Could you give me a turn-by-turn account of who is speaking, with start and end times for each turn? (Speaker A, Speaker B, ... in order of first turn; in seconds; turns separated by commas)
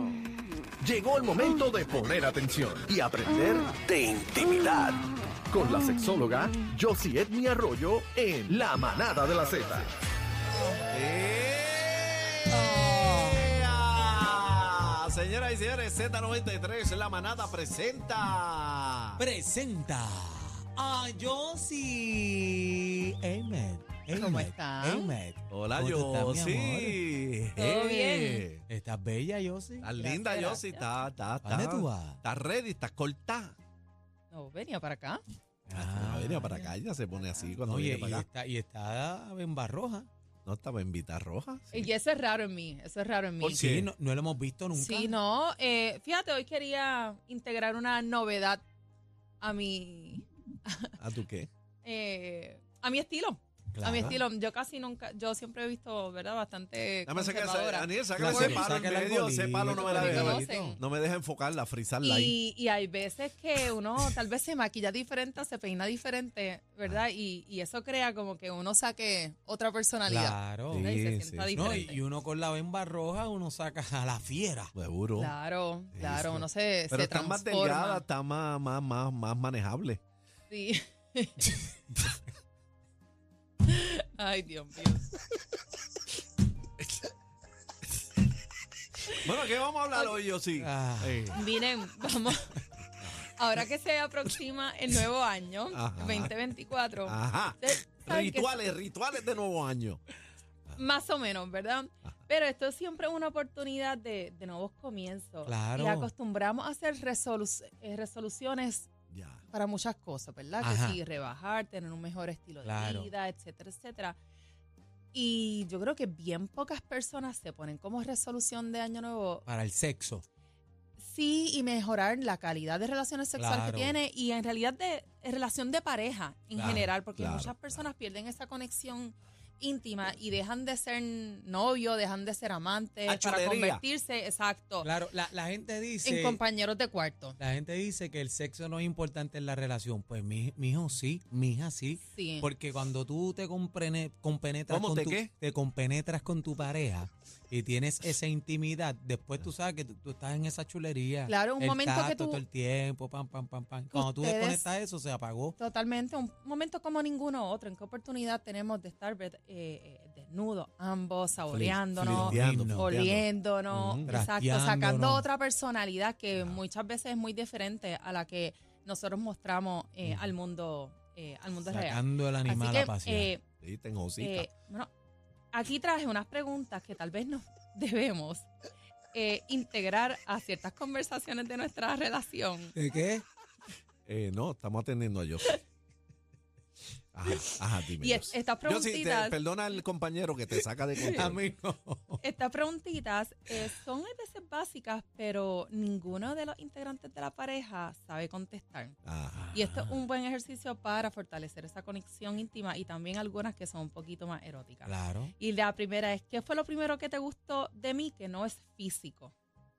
Speaker A: 0.8-9.9, Speaker B: 9.2-9.8, Speaker B: 10.9-19.2, Speaker C: 12.5-13.5, Speaker D: 19.2-26.9, Speaker C: 24.1-25.1, Speaker B: 25.5-28.6, Speaker C: 27.5-28.5, Speaker D: 28.7-29.9, Speaker B: 29.8-33.5, Speaker C: 29.9-30.9, Speaker D: 31.4-32.2, Speaker C: 34.3-35.2, Speaker D: 35.7-36.5, Speaker B: 35.7-38.3, Speaker C: 36.6-37.6, Speaker D: 37.7-40.1, Speaker B: 40.4-41.9, Speaker C: 41.7-43.8, Speaker B: 43.4-43.9, Speaker D: 43.6-45.1, Speaker C: 44.7-48.6, Speaker C: 49.4-51.0, Speaker B: 51.0-51.5, Speaker C: 51.8-58.8, Speaker D: 53.7-54.0, Speaker B: 53.9-54.2, Speaker B: 57.0-62.4, Speaker D: 58.2-60.7, Speaker C: 59.6-60.8, Speaker C: 62.0-72.0, Speaker D: 70.1-70.8, Speaker B: 70.7-71.9, Speaker D: 71.5-74.7, Speaker B: 74.7-75.3, Speaker C: 75.1-78.0, Speaker B: 75.9-80.0, Speaker C: 80.5-81.7, Speaker C: 83.6-85.1, Speaker C: 89.0-89.2, Speaker B: 89.2-91.4, Speaker D: 90.7-91.1, Speaker C: 91.2-92.6, Speaker C: 93.2-98.7, Speaker B: 95.7-96.3, Speaker B: 97.0-100.0, Speaker C: 100.7-108.9, Speaker D: 105.4-106.1, Speaker B: 109.1-109.4, Speaker C: 109.5-114.2, Speaker D: 110.6-111.0, Speaker D: 112.6-113.1, Speaker C: 115.1-119.5, Speaker D: 119.5-120.2, Speaker C: 121.0-134.9, Speaker D: 123.4-124.0, Speaker B: 126.6-127.6, Speaker B: 133.1-133.8, Speaker D: 134.8-136.4, Speaker C: 136.0-137.4, Speaker D: 137.4-155.6, Speaker C: 142.1-142.5, Speaker B: 144.7-145.3, Speaker C: 151.2-152.4, Speaker C: 153.9-154.7, Speaker C: 155.6-173.4, Speaker B: 161.5-164.2, Speaker D: 162.2-162.9, Speaker D: 164.1-165.2, Speaker D: 171.7-173.3, Speaker B: 173.6-174.4, Speaker C: 174.2-174.9, Speaker C: 175.5-178.5, Speaker C: 179.1-182.8, Speaker D: 182.7-183.2, Speaker B: 184.1-185.6, Speaker B: 187.1-191.4, Speaker C: 187.3-189.6, Speaker D: 191.3-192.2, Speaker C: 192.2-199.0, Speaker B: 199.0-199.5, Speaker D: 199.4-199.9, Speaker C: 199.5-209.3, Speaker D: 204.8-205.3